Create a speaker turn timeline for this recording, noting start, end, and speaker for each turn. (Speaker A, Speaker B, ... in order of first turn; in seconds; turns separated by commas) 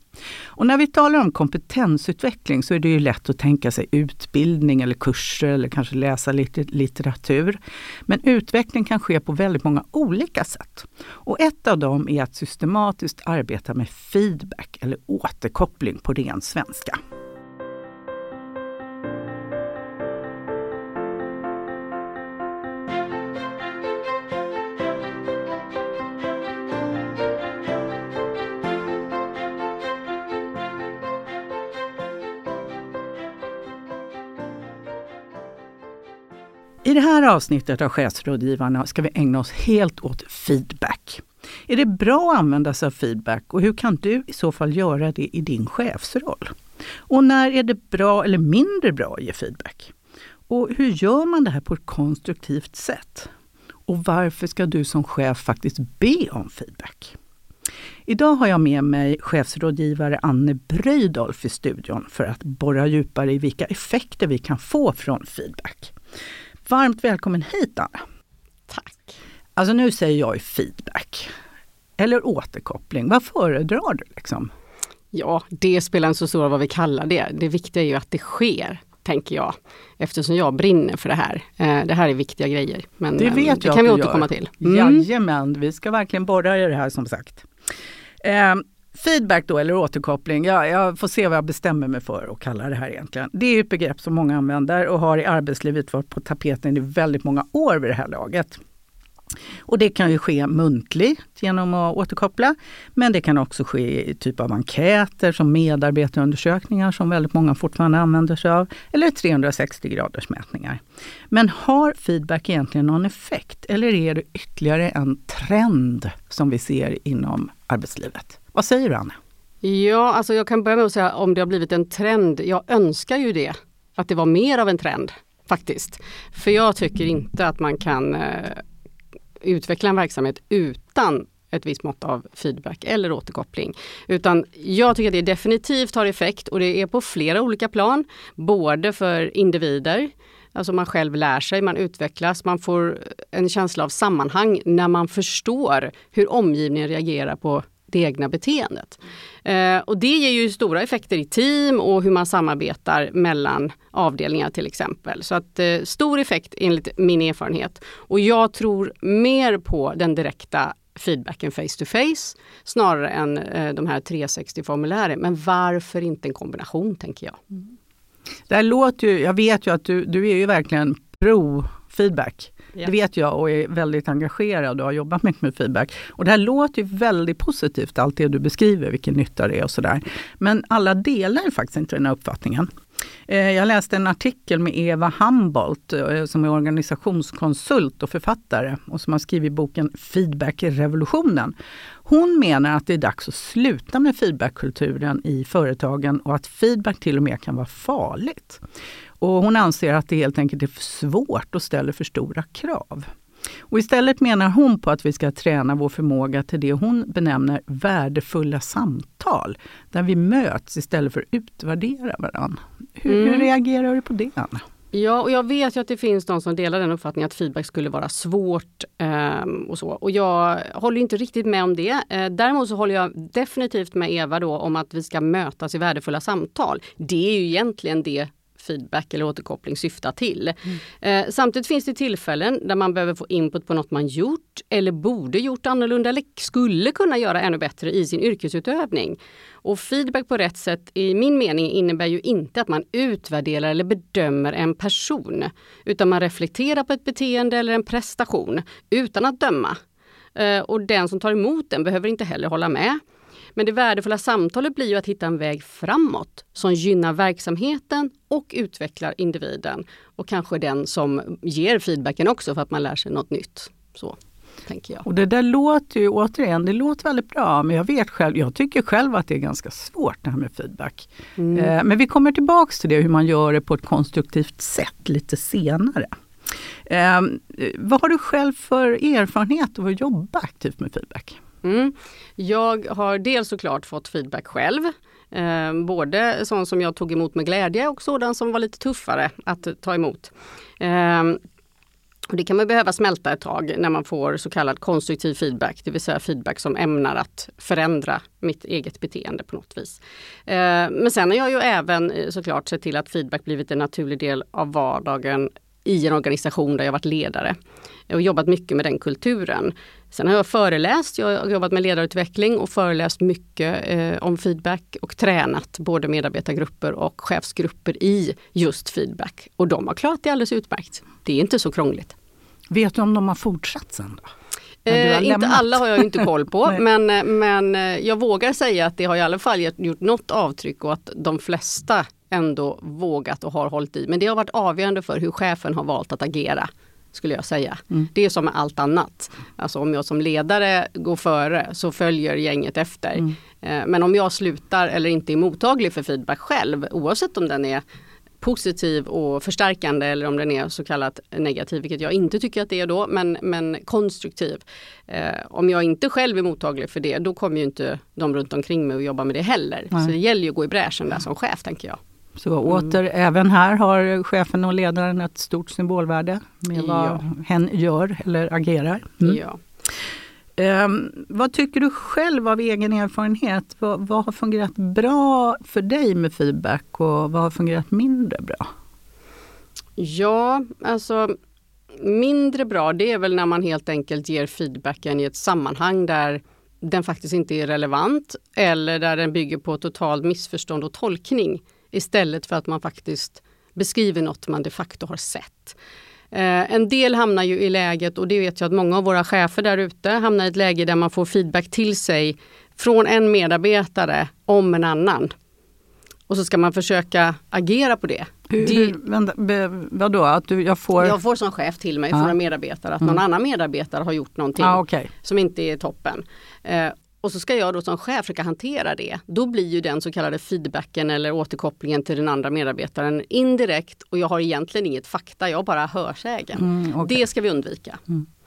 Speaker A: 0.6-17.0, Speaker A: 36.8-46.5, Speaker A: 47.1-49.9, Speaker A: 50.5-53.3, Speaker A: 53.9-57.1, Speaker A: 58.0-65.9, Speaker A: 66.7-68.0, Speaker B: 68.7-69.2, Speaker A: 69.5-71.3, Speaker A: 72.0-74.5, Speaker B: 75.1-85.0, Speaker A: 83.2-87.5, Speaker A: 88.2-98.6, Speaker A: 99.7-110.8, Speaker A: 111.3-119.2, Speaker B: 119.6-128.6, Speaker B: 129.4-167.4, Speaker A: 168.5-182.7, Speaker A: 183.3-191.5, Speaker A: 192.0-198.6, Speaker A: 199.2-203.1, Speaker A: 203.7-214.6, Speaker B: 213.1-213.5, Speaker B: 214.9-249.8, Speaker B: 250.3-253.0, Speaker B: 253.6-265.0, Speaker A: 265.0-276.1, Speaker B: 271.4-271.7, Speaker A: 276.9-281.4, Speaker B: 281.6-291.4, Speaker B: 292.3-307.6, Speaker B: 308.1-322.1, Speaker A: 322.7-324.3, Speaker B: 324.8-347.8, Speaker A: 324.9-326.3, Speaker B: 348.4-362.0, Speaker A: 362.4-369.4, Speaker B: 366.7-367.2, Speaker B: 369.2-369.6, Speaker A: 370.6-378.7, Speaker B: 380.0-381.3, Speaker B: 381.9-395.8, Speaker B: 396.3-405.3, Speaker B: 406.3-408.9, Speaker A: 408.5-411.1, Speaker B: 411.0-428.0, Speaker A: 414.6-415.1, Speaker A: 426.6-427.2